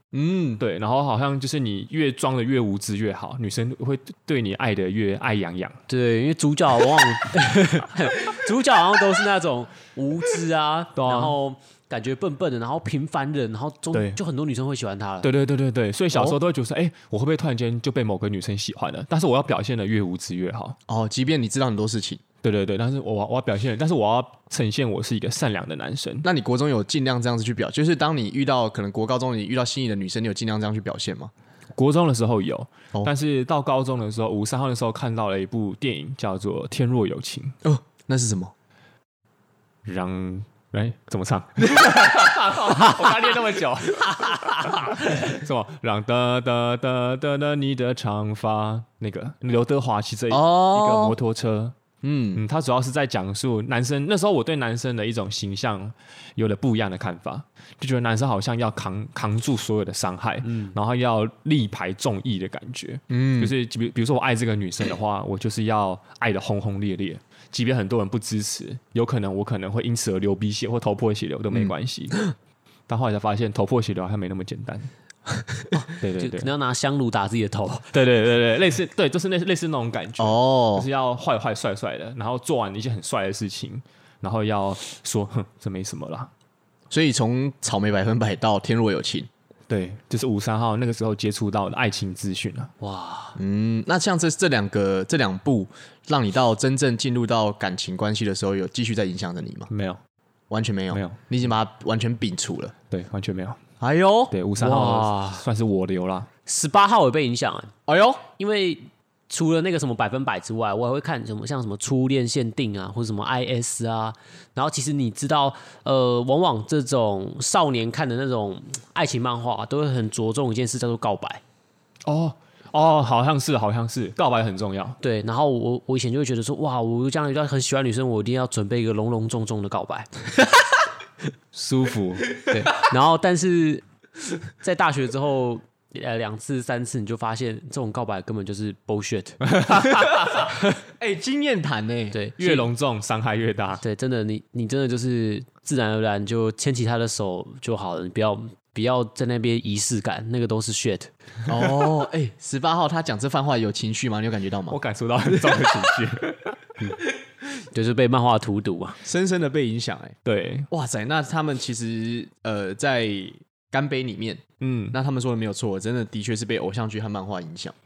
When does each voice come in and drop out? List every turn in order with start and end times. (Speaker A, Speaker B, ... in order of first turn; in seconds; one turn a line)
Speaker A: 0.1-0.6
Speaker B: 0.6-5.8
Speaker C: 5.9-15.3
Speaker B: 10.9-11.4
Speaker B: 13.9-14.2
Speaker B: 15.2-20.8
Speaker A: 20.9-22.2
Speaker B: 22.4-26.3
Speaker A: 26.2-31.3
Speaker B: 31.8-37.6
Speaker A: 37.6-38.5
Speaker B: 39.9-51.8
Speaker A: 50.3-51.1
Speaker A: 52.0-52.4
Speaker B: 52.4-72.2
Speaker C: 60.5-60.7
Speaker A: 63.1-63.5
Speaker B: 72.9-74.9
Speaker B: 76.0-76.5
Speaker C: 76.2-77.9
Speaker B: 77.9-86.3
Speaker A: 80.2-80.9
Speaker A: 86.9-89.3
Speaker B: 89.7-92.7
Speaker C: 92.8-93.4
Speaker A: 93.4-99.7
Speaker B: 99.7-100.0
Speaker A: 100.5-102.7
Speaker B: 100.9-101.2
Speaker B: 102.9-103.6
Speaker A: 103.8-104.3
Speaker B: 104.3-106.3
Speaker C: 104.6-105.5
Speaker C: 106.5-107.7
Speaker A: 107.9-108.2
Speaker C: 108.3-121.4
Speaker B: 122.0-125.0
Speaker C: 125.0-130.2
Speaker B: 131.5-132.4
Speaker C: 132.4-133.8
Speaker C: 134.5-139.5
Speaker B: 139.5-140.5
Speaker A: 140.8-142.2
Speaker C: 142.1-142.7
Speaker B: 142.4-143.8
Speaker C: 143.8-151.1
Speaker A: 151.5-154.8
Speaker B: 154.7-156.7
Speaker A: 155.3-155.7
Speaker C: 157.6-159.0
Speaker A: 159.0-160.2
Speaker B: 160.2-160.7
Speaker A: 160.7-167.8
Speaker B: 164.6-164.9